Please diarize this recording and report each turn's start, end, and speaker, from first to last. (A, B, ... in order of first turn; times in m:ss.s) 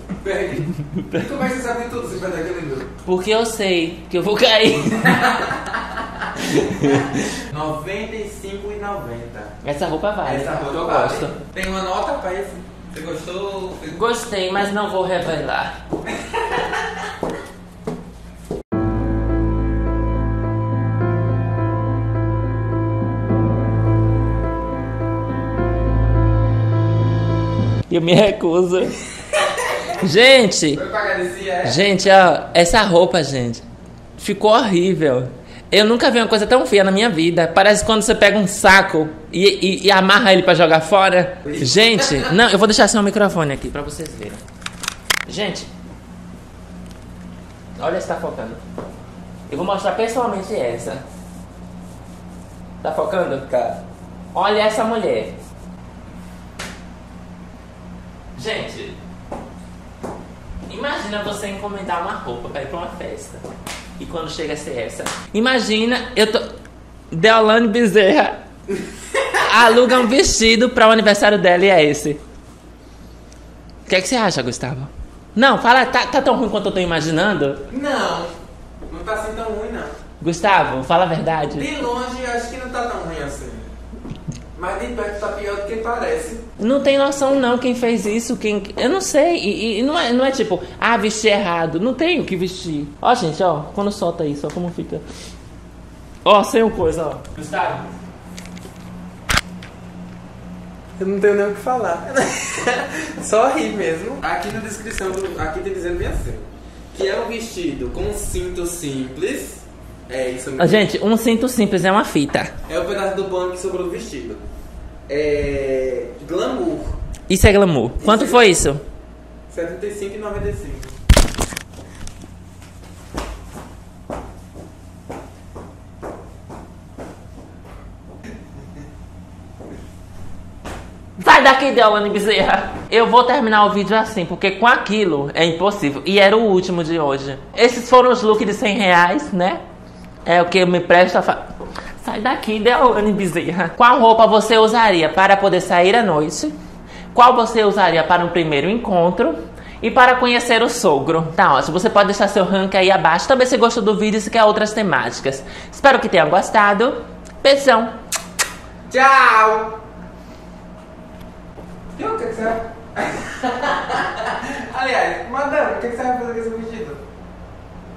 0:00.2-0:02.9 A
0:00.8-0:01.4 B
0:03.0-0:05.4 B
0:05.0-0:09.6 A
0:06.4-0:07.4 B
0:09.6-0:11.3 B
0:10.2-0:14.0 A
0:13.9-0:15.7 B
0:16.1-0:16.8 A
0:27.9-0:29.0 B
0:29.9-0:30.8 B
0:30.7-0:31.8 A
0:31.6-0:33.6 B
0:34.2-0:44.4 B
0:41.4-0:42.3 A
0:45.2-0:45.7 B
0:47.8-0:48.6 B
0:49.5-0:51.0 B
0:52.8-0:53.5 B
0:53.5-0:53.8 A
0:54.3-0:55.3 B
0:58.4-0:59.0 B
1:00.7-1:03.4 B
1:04.0-1:06.5 B
1:07.1-1:08.4 B
1:09.4-1:12.2 B
1:13.9-1:17.6 B
1:17.7-1:18.3 A
1:18.9-1:19.9 A
1:20.2-1:21.7 B
1:21.5-1:23.7 A
1:24.5-1:26.4 A
1:26.6-1:35.0 B
1:36.2-1:38.0 B
1:41.0-1:50.9 A
1:50.6-1:52.5 B
1:52.7-1:54.4 A
1:55.1-1:57.0 A
1:57.3-1:58.8 B
1:58.0-1:58.6 A
1:59.5-2:00.9 A
2:11.2-2:19.6 B
2:20.2-2:26.5 B
2:27.1-2:37.9 B
2:38.9-2:39.7 A
2:42.0-2:47.0 A